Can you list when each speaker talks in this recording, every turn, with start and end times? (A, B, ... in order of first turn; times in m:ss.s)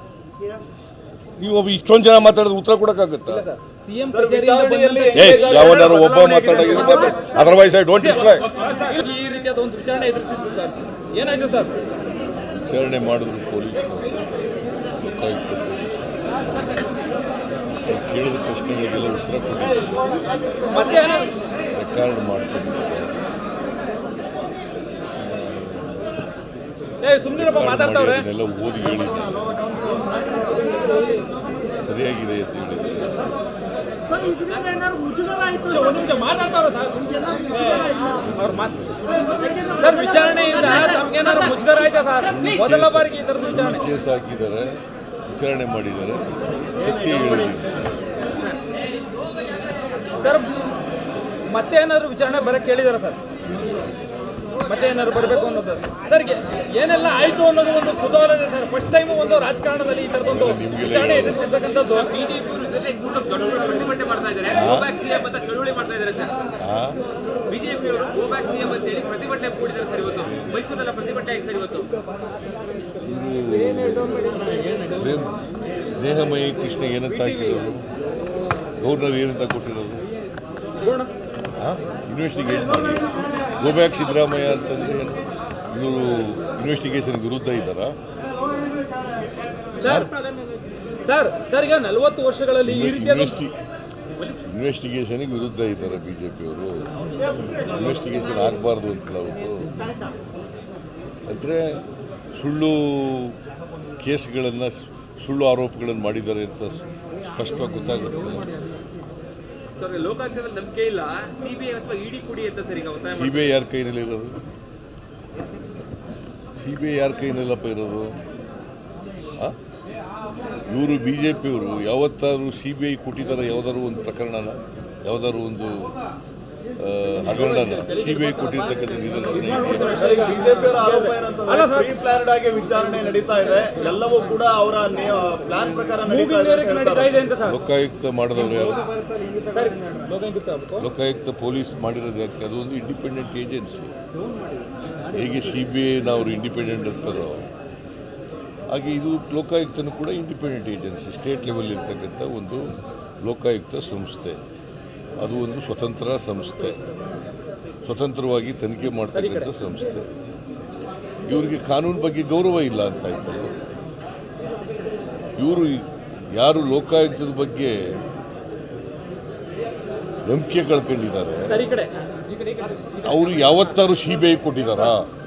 0:01.4-0:03.4 A
0:03.3-0:05.9 B
0:04.1-0:07.2 C
0:05.1-0:08.5 A
0:06.5-0:07.2 B
0:08.0-0:11.8 B
0:12.5-0:16.4 A
0:17.9-0:20.2 A
0:20.7-0:21.3 B
0:21.7-0:23.2 A
0:25.2-0:26.2 A
0:27.0-0:28.3 B
0:27.4-0:29.5 A
0:30.4-0:31.3 B
0:31.8-0:33.2 A
0:34.0-0:36.2 D
0:35.6-0:38.9 B
0:37.0-0:38.2 D
0:38.2-0:39.0 A
0:39.3-0:40.5 D
0:39.8-0:43.9 B
0:40.6-0:41.6 E
0:42.3-0:47.8 A
0:46.8-0:47.6 B
0:50.2-0:50.6 B
0:51.5-0:53.2 B
0:53.5-0:53.9 A
0:54.7-1:02.1 B
1:00.2-1:01.4 A
1:01.8-1:06.4 E
1:04.5-1:04.9 A
1:06.6-1:07.0 A
1:07.5-1:11.9 E
1:10.0-1:10.6 A
1:13.0-1:17.8 A
1:17.1-1:17.7 B
1:18.8-1:20.0 A
1:20.8-1:21.1 B
1:21.6-1:25.2 A
1:25.7-1:28.0 A
1:29.8-1:30.1 B
1:29.8-1:30.1 A
1:31.0-1:33.4 B
1:32.6-1:33.6 A
1:34.4-1:36.8 A
1:37.5-1:39.8 A
1:41.3-1:41.8 A
1:42.3-1:43.4 A
1:44.0-1:48.5 A
1:49.8-1:53.5 E
1:53.0-1:54.3 A
1:56.5-1:58.2 A
2:00.7-2:05.9 A
2:06.8-2:10.0 A
2:07.4-2:08.6 B
2:09.3-2:11.9 B
2:09.8-2:17.1 C
2:16.1-2:17.6 B
2:17.4-2:18.8 A
2:19.5-2:20.9 B
2:20.8-2:23.9 A
2:25.1-2:27.4 A
2:28.7-2:34.4 A
2:35.2-2:36.8 A
2:37.8-2:40.1 A
2:39.1-2:39.5 B
2:41.2-2:43.6 A
2:45.4-2:48.0 A
2:50.2-2:51.6 A
2:51.5-2:51.9 B
2:53.0-2:55.1 A